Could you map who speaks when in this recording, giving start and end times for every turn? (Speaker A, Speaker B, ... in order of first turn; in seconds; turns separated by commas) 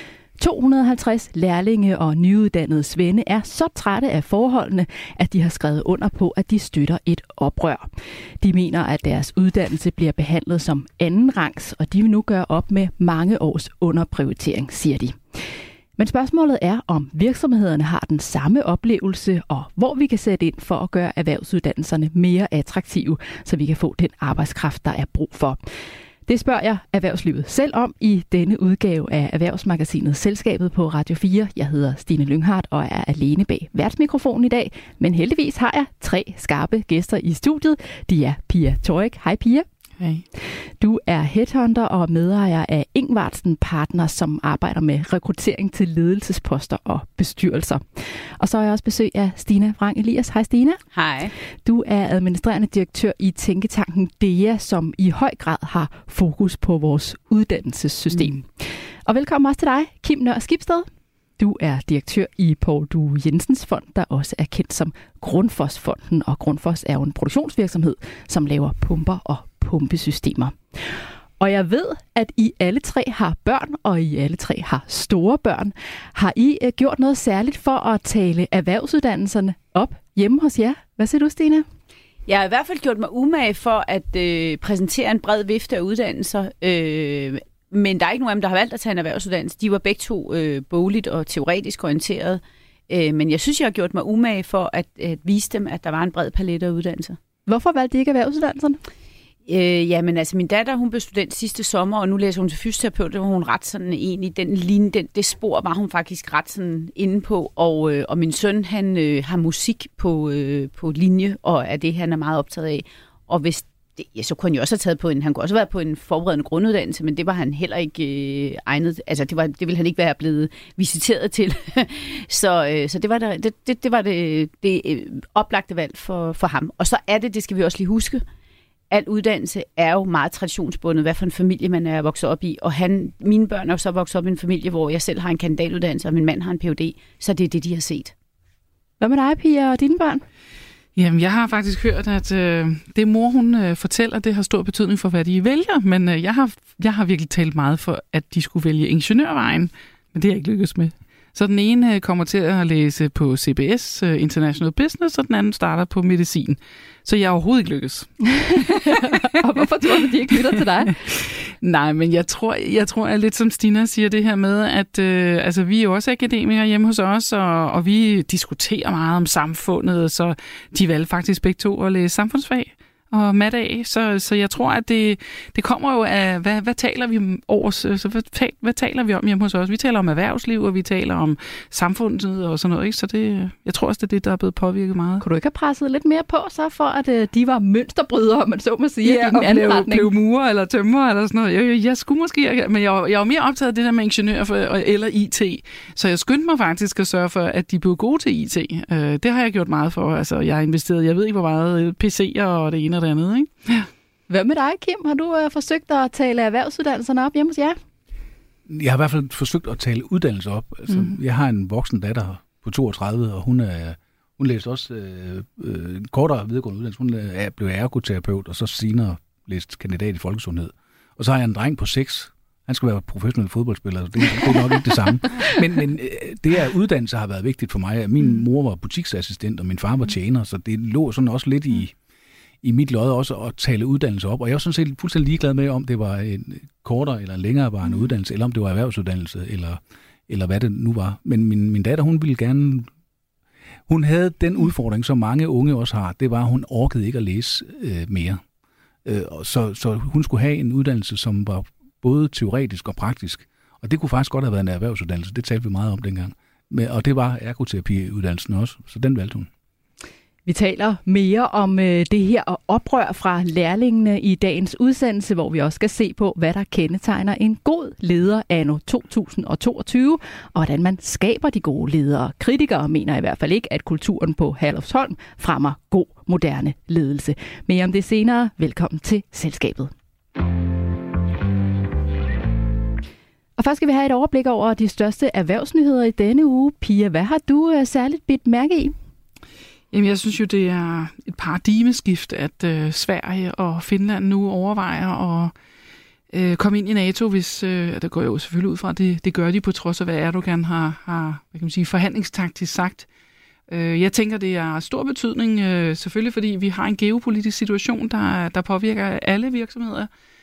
Speaker A: 0.4-7.9, Speaker A: 8.4-15.4, Speaker A: 16.0-25.6, Speaker A: 26.3-39.6, Speaker A: 40.4-50.8, Speaker B: 50.9-51.3, Speaker A: 51.6-60.9, Speaker A: 61.4-81.6, Speaker B: 82.3-97.2, Speaker A: 97.5-98.8, Speaker B: 99.5-128.2, Speaker B: 128.9-138.1, Speaker A: 139.0-140.2, Speaker C: 140.9-159.2, Speaker A: 158.7-160.9, Speaker C: 161.0-185.2, Speaker A: 185.2-190.1, Speaker C: 189.0-203.9, Speaker A: 204.3-207.8, Speaker D: 208.7-231.9, Speaker D: 232.6-242.9, Speaker D: 243.9-248.4, Speaker D: 249.0-259.5, Speaker A: 260.4-279.9, Speaker A: 283.6-288.9, Speaker C: 289.9-295.5, Speaker C: 296.3-303.1, Speaker C: 303.7-310.1